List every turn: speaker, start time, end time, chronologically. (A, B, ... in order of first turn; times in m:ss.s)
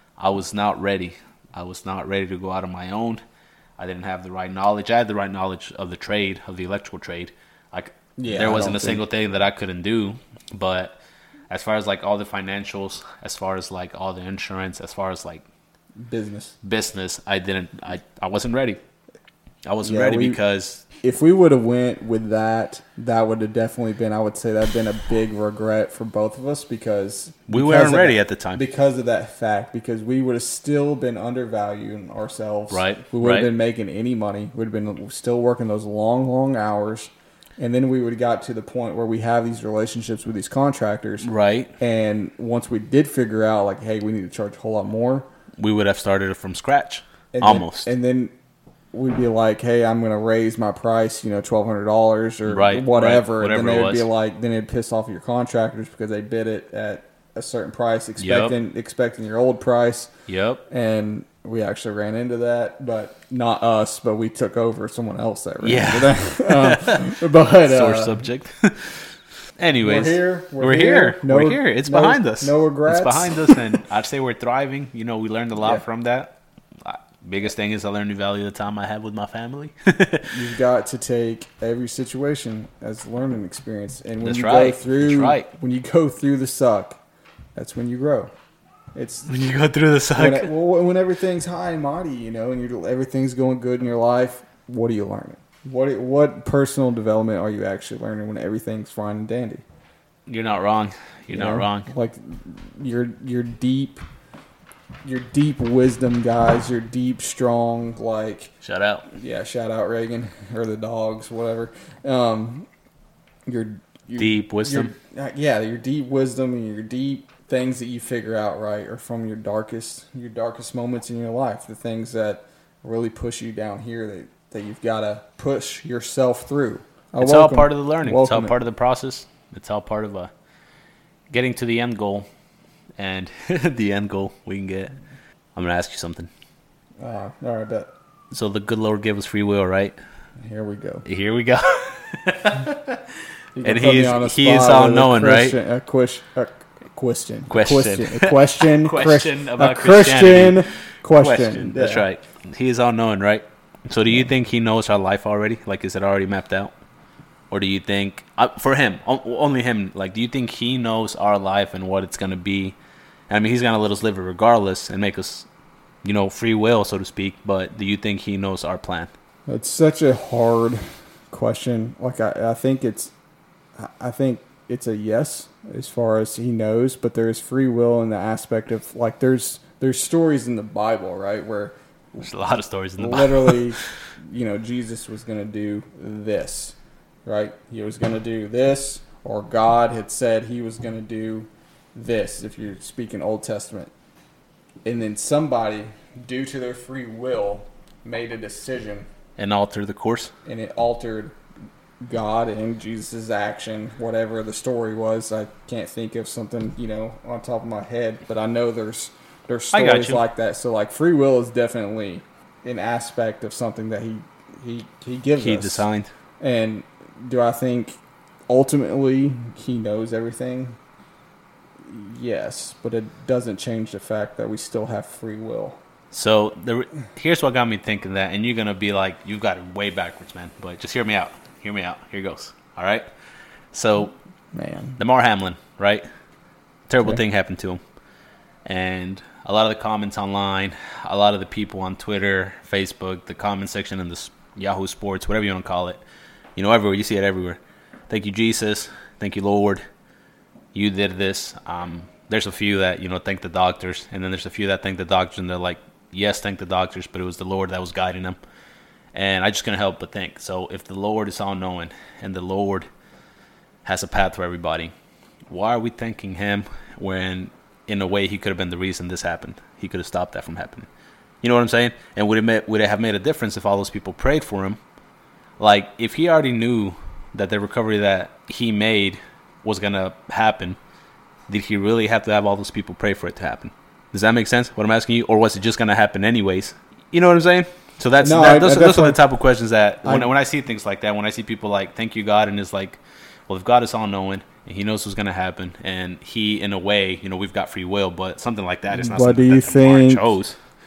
0:00.2-0:03.2 A
0:03.8-0:11.0 A
0:08.2-0:09.0 B
0:11.5-0:15.4 A
0:16.0-0:16.6 B
0:16.6-0:18.8 A
0:19.7-0:20.8 A
0:19.8-0:20.4 B
0:21.0-0:45.3 B
0:27.5-0:28.6 A
0:32.7-0:33.5 A
0:41.2-0:41.7 A
0:45.6-0:47.9 A
0:47.3-0:48.3 B
0:48.9-1:00.1 B
0:52.5-0:54.1 A
0:58.2-0:58.6 A
1:00.3-1:00.6 A
1:00.7-1:08.2 B
1:05.6-1:09.0 A
1:09.6-1:20.3 A
1:09.8-1:13.8 B
1:20.3-1:27.0 B
1:24.2-1:25.5 A
1:27.6-1:28.3 B
1:29.0-1:29.3 B
1:29.3-1:30.5 A
1:30.2-1:39.6 B
1:40.3-1:41.9 A
1:41.3-1:44.0 B
1:45.0-1:48.5 B
1:48.6-1:49.1 A
1:49.1-1:52.7 B
1:53.5-2:08.6 B
1:54.2-1:54.9 A
2:07.2-2:10.3 A
2:11.3-2:12.3 A
2:13.0-2:15.0 A
2:15.6-2:16.3 A
2:17.0-2:17.9 B
2:18.3-2:20.0 A
2:20.4-2:21.1 B
2:21.1-2:25.6 A
2:23.6-2:32.1 B
2:27.5-2:36.7 A
2:37.5-2:42.8 A
2:43.3-2:45.5 A
2:46.0-2:49.1 A
2:49.5-2:53.1 B
2:53.8-3:02.3 B
3:02.2-3:03.8 A
3:03.0-3:13.9 B
3:14.8-3:19.1 B
3:19.4-3:20.3 A
3:20.4-3:21.4 B
3:22.0-3:35.9 B
3:29.7-3:30.2 A
3:35.4-3:36.1 A
3:36.4-3:38.0 B
3:38.5-3:40.8 B
3:41.9-3:45.8 B
3:46.1-3:53.1 A
3:53.7-3:54.2 A
3:54.5-3:55.0 B
3:55.0-3:56.0 A
3:56.9-3:57.8 A
3:58.6-4:06.0 A
4:06.6-4:09.8 A
4:10.7-4:18.4 A
4:19.1-4:22.9 A
4:23.8-4:24.9 A
4:25.5-4:30.9 A
4:31.4-4:34.8 A
4:35.6-4:40.8 A
4:41.5-5:00.6 A
4:48.2-4:49.2 B
4:50.0-4:50.3 B
4:58.9-5:00.3 B